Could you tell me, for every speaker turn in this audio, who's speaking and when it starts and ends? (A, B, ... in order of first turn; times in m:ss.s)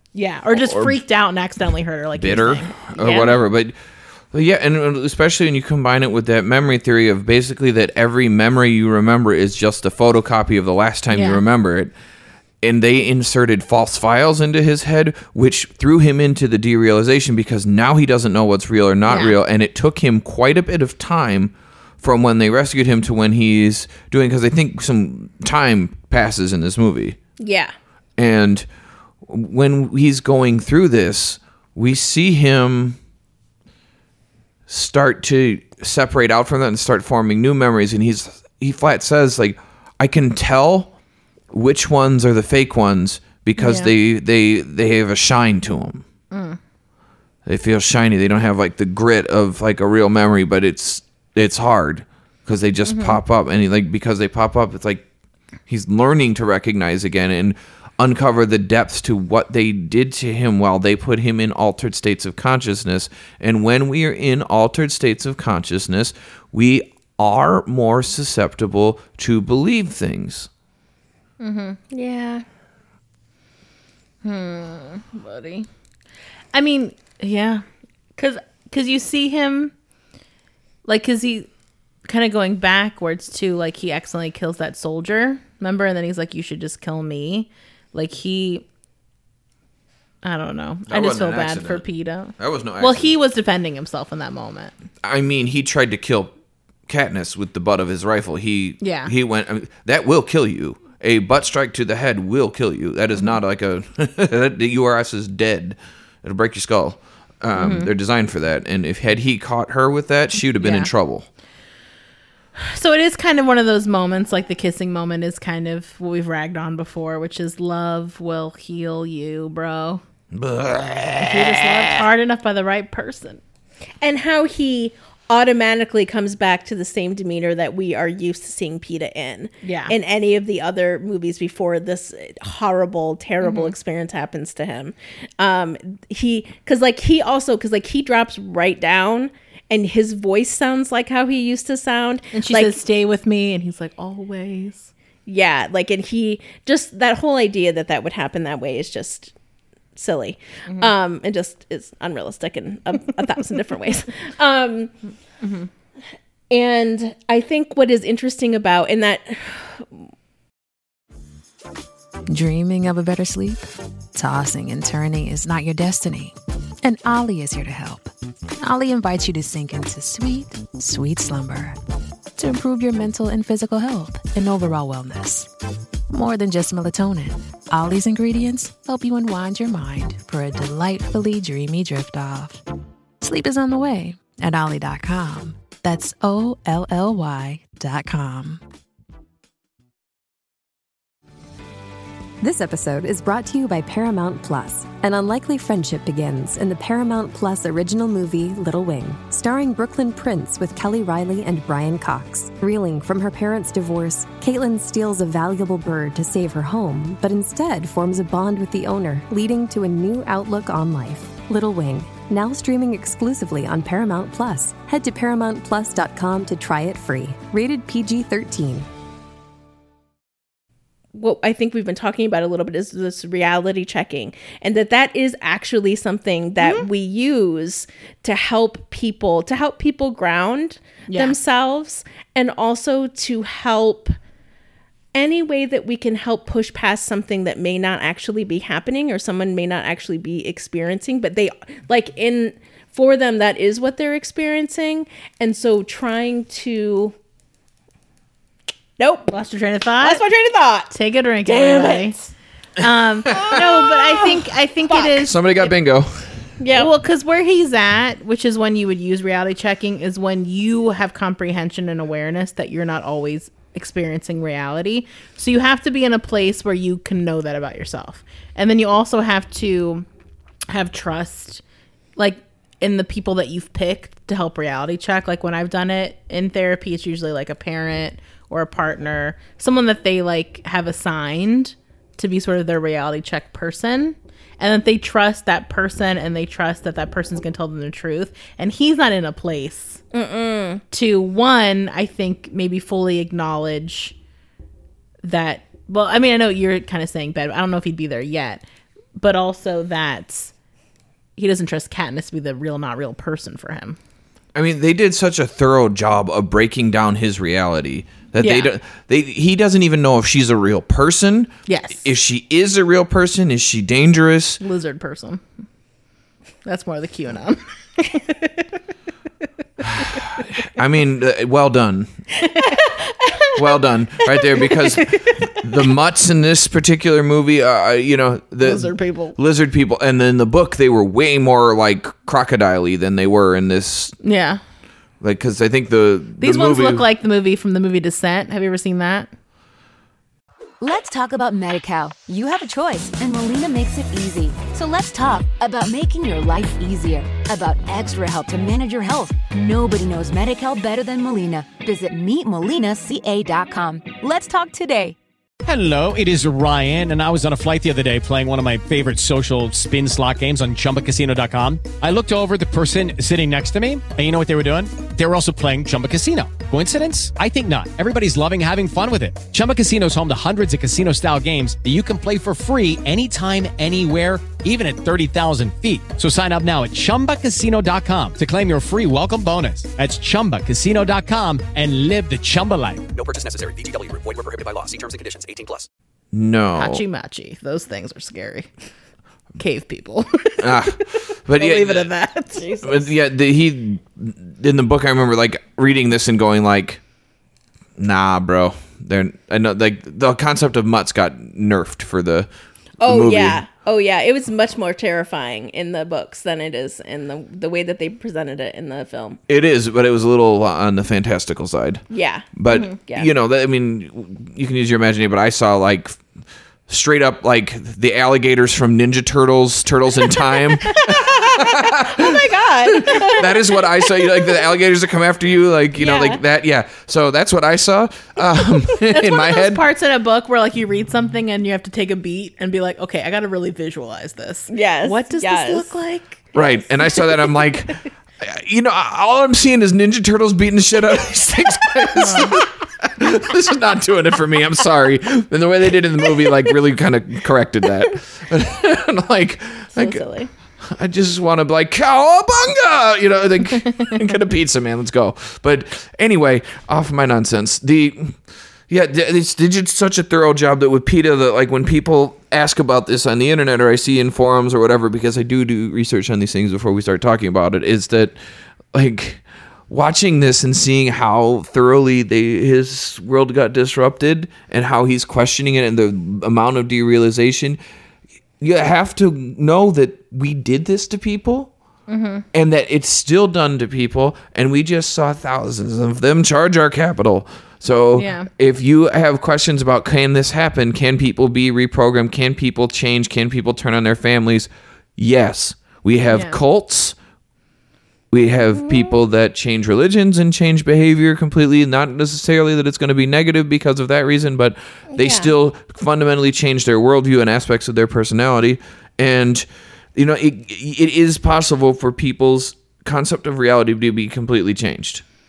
0:00.2-0:03.0 A
0:00.6-0:01.0 B
0:02.2-0:03.8 B
0:03.0-0:03.4 C
0:04.3-0:11.9 B
0:11.1-0:11.4 A
0:12.6-0:27.2 B
0:19.1-0:19.4 A
0:27.4-0:27.7 C
0:28.2-0:28.7 B
0:29.3-0:33.0 B
0:34.7-0:40.9 B
0:41.5-0:46.0 B
0:43.6-0:43.9 A
0:46.3-0:46.6 A
0:47.5-0:55.1 B
0:52.9-0:53.2 A
0:55.7-1:10.5 B
1:11.4-1:11.8 A
1:11.9-1:12.4 C
1:14.2-1:15.7 A
1:16.5-1:17.6 A
1:18.2-1:19.7 A
1:20.9-1:21.5 A
1:22.1-1:28.6 A
1:30.2-1:34.8 A
1:30.9-1:31.9 B
1:32.4-1:33.1 B
1:35.0-1:36.3 B
1:36.9-1:51.3 B
1:38.8-1:39.1 A
1:47.6-1:47.9 A
1:50.6-1:50.9 A
1:52.6-2:00.0 A
2:00.3-2:02.1 B
2:01.2-2:03.4 A
2:04.0-2:22.8 C
2:09.6-2:09.9 A
2:13.4-2:13.7 A
2:22.3-2:24.9 A
2:25.3-2:29.3 C
2:30.0-2:34.9 C
2:35.4-2:35.7 A
2:36.5-2:40.0 C
2:42.3-2:51.8 D
2:52.4-2:55.5 D
2:56.1-3:02.6 D
3:03.2-3:08.6 D
3:12.4-3:38.9 E
3:41.2-3:54.2 C
3:46.6-3:46.9 A
3:51.1-3:51.4 A
3:55.1-4:07.2 C
4:09.0-4:09.3 C
4:09.3-4:10.2 A
4:10.0-4:10.9 C
4:10.9-4:15.7 A
4:11.5-4:12.1 C
4:13.3-4:14.3 C
4:14.9-4:15.2 C
4:15.2-4:16.3 B
4:16.6-4:16.9 C
4:16.7-4:30.1 A
4:30.7-4:31.6 A
4:32.2-4:50.0 A
4:50.1-4:50.8 C
4:50.9-4:54.2 A
4:55.2-4:58.6 A
4:59.2-5:00.5 A
5:01.4-5:04.0 A
5:04.6-5:14.6 B
5:08.4-5:08.7 A
5:11.7-5:12.0 A
5:14.6-5:15.4 A
5:16.6-5:18.7 A
5:20.0-5:22.1 B
5:22.5-5:22.8 A
5:23.6-5:34.2 B
5:25.1-5:25.5 A
5:28.6-5:29.4 A
5:34.2-5:34.6 A
5:35.2-5:37.0 B
5:36.4-5:39.3 A
5:40.8-5:55.2 F
5:55.6-6:23.0 G
6:23.1-6:25.9 H
6:26.3-6:27.0 B
6:26.8-6:28.7 A
6:29.6-6:33.0 A
6:30.6-6:32.1 B
6:32.6-6:32.8 C
6:32.8-6:37.0 B
6:38.0-6:42.5 B
6:43.0-6:49.4 C
6:43.0-6:43.6 B
6:49.5-6:52.0 B
6:52.1-6:53.3 C
6:52.6-6:56.2 B
6:56.9-7:02.3 B
7:01.1-7:03.8 C
7:02.9-7:09.8 B
7:06.0-7:06.4 C
7:09.0-7:17.3 A
7:14.7-7:16.0 C
7:16.5-7:30.2 B
7:22.2-7:22.6 A
7:30.0-7:30.5 C
7:30.8-7:38.4 B
7:38.9-7:48.4 B
7:48.9-7:57.8 B
7:58.6-8:01.7 B
8:02.1-8:02.4 A
8:02.5-8:17.2 B
8:08.1-8:08.5 A
8:16.3-8:16.6 A
8:18.3-8:35.2 B
8:18.8-8:19.2 C
8:25.2-8:25.5 C